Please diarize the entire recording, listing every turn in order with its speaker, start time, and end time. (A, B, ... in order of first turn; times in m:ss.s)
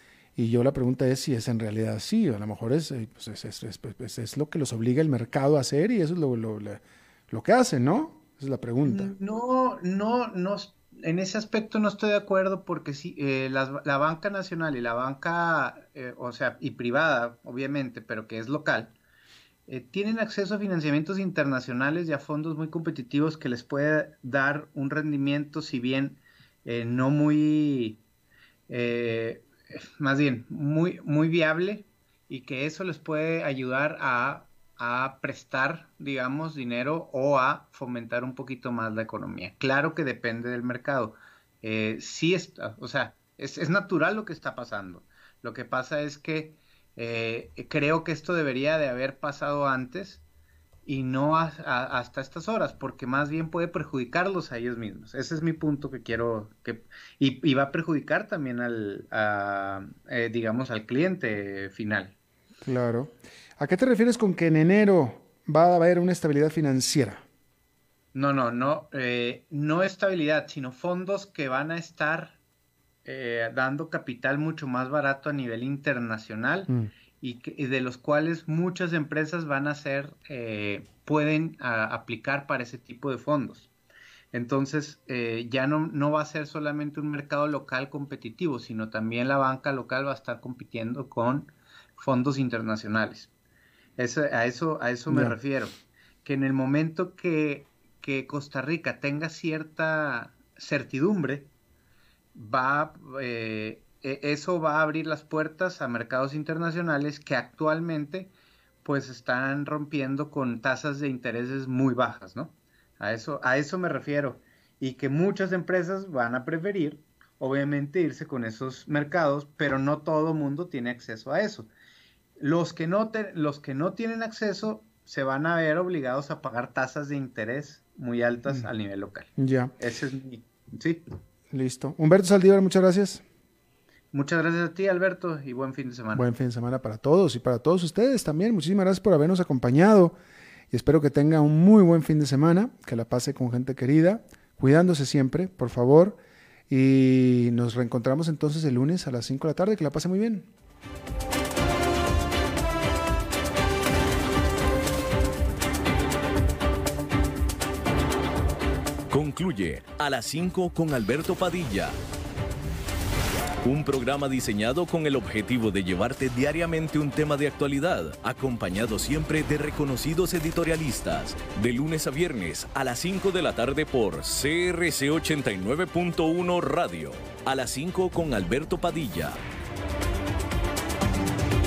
0:00.4-0:09.1 A
0:08.8-0:19.0 B
0:19.7-0:28.0 B
0:28.7-0:50.2 B
0:50.8-1:02.1 B
1:02.6-1:07.2 A
1:08.1-1:12.4 B
1:13.0-1:23.7 B
1:24.3-1:33.3 B
1:34.0-1:41.5 B
1:35.1-1:35.4 A
1:42.3-1:48.3 B
1:48.8-2:01.7 B
2:02.4-2:11.0 B
2:09.4-2:09.7 A
2:11.5-2:13.2 A
2:14.1-2:16.3 B
2:16.1-2:20.2 A
2:20.7-2:26.2 A
2:26.7-2:30.5 A
2:39.1-2:42.0 C
2:43.6-2:59.4 C